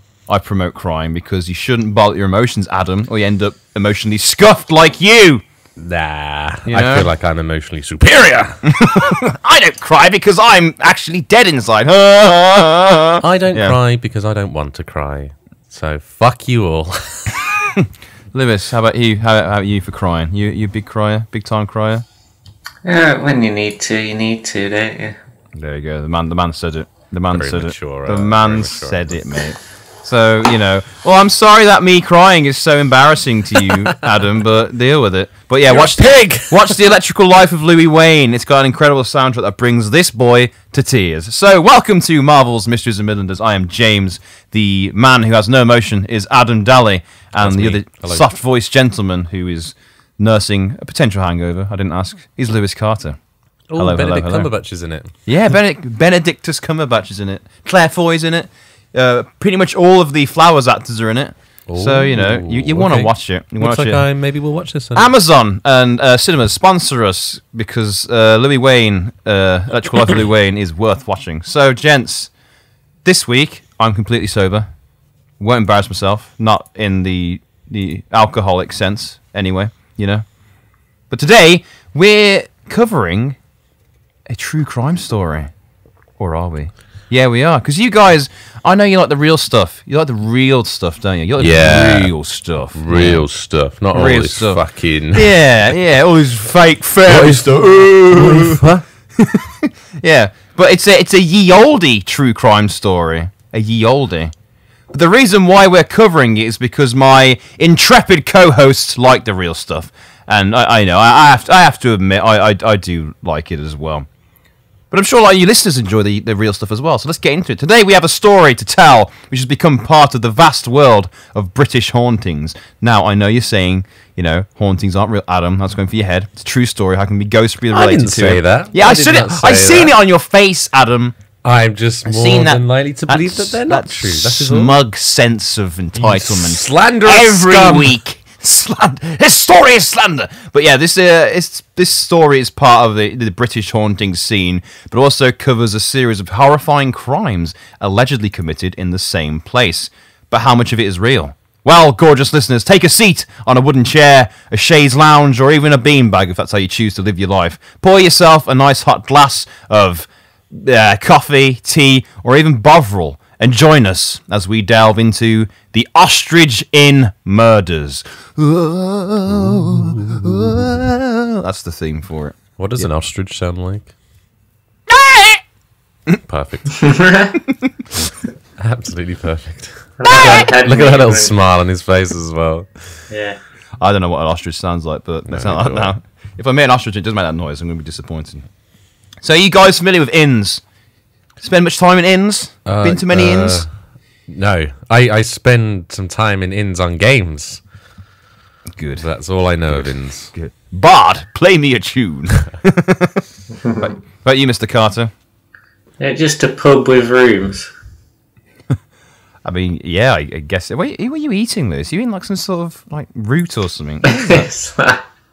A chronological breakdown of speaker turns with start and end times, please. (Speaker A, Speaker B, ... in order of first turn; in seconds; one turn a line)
Speaker A: 0.3-5.4
Speaker B: 5.8-8.7
Speaker A: 6.7-7.1
Speaker A: 8.6-13.8
Speaker B: 13.2-17.5
Speaker A: 17.8-22.1
Speaker C: 22.9-25.2
Speaker A: 25.6-53.2
Speaker B: 27.3-29.3
Speaker B: 33.6-34.0
Speaker B: 35.7-36.8
Speaker B: 47.4-48.3
Speaker B: 53.7-55.1
Speaker A: 53.8-54.5
Speaker A: 55.3-64.1
Speaker B: 61.7-65.1
Speaker A: 65.0-72.3
Speaker A: 73.0-74.7
Speaker A: 75.4-80.2
Speaker A: 81.1-83.4
Speaker A: 84.3-85.5
Speaker A: 86.2-93.2
Speaker B: 91.4-92.1
Speaker B: 92.7-95.5
Speaker A: 93.9-98.7
Speaker B: 97.1-98.8
Speaker A: 99.2-104.3
Speaker A: 104.9-114.1
Speaker A: 114.9-131.2
Speaker B: 127.7-130.0
Speaker B: 131.4-134.8
Speaker A: 132.1-172.9
Speaker B: 135.9-138.0
Speaker B: 169.3-170.7
Speaker B: 172.6-173.9
Speaker A: 175.0-175.4
Speaker B: 176.3-176.9
Speaker C: 176.8-177.3
Speaker B: 178.6-183.0
Speaker C: 180.0-181.3
Speaker C: 183.1-183.4
Speaker A: 183.8-188.5
Speaker B: 185.3-185.9
Speaker A: 189.2-190.6
Speaker A: 191.4-193.7
Speaker B: 192.7-193.7
Speaker B: 194.3-197.6
Speaker A: 198.8-199.1
Speaker B: 199.0-200.3
Speaker A: 199.7-203.2
Speaker A: 203.8-205.1
Speaker C: 206.0-207.7
Speaker A: 209.4-214.5
Speaker C: 214.1-215.0